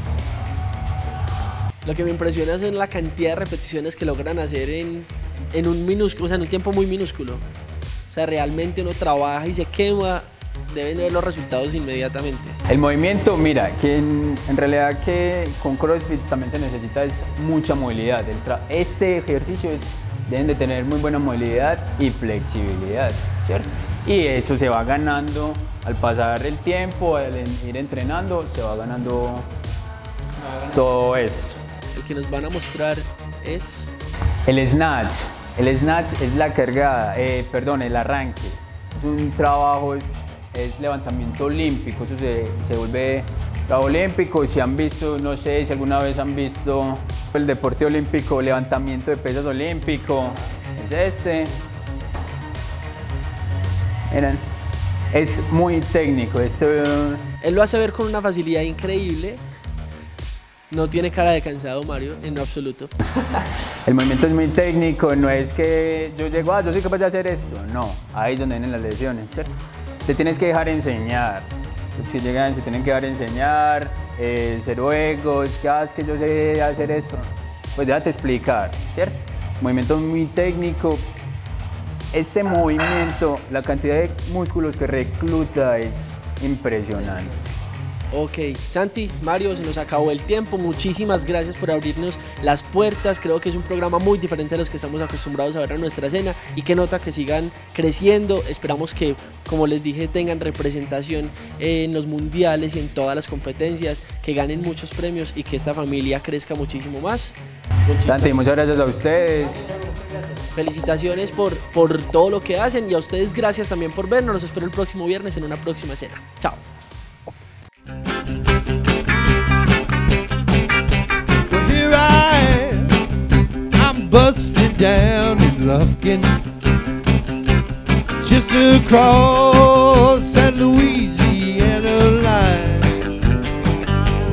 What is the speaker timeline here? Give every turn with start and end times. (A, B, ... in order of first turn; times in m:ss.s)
0:01.8-0:07.4 A
0:08.1-0:12.6 A
0:12.7-0:29.5 B
0:30.7-0:31.6 B
0:31.9-0:33.9 A
0:34.5-0:51.6 B
0:54.1-0:54.5 B
0:55.1-0:57.3 B
0:57.4-0:59.4 A
1:00.7-1:02.9 A
1:03.8-1:09.5 B
1:10.1-1:21.1 B
1:22.1-1:27.5 B
1:28.1-1:48.5 A
1:48.0-1:49.8 B
1:50.6-1:56.6 A
2:01.5-2:03.0 C
2:03.8-2:06.4 C
2:08.2-2:13.0 C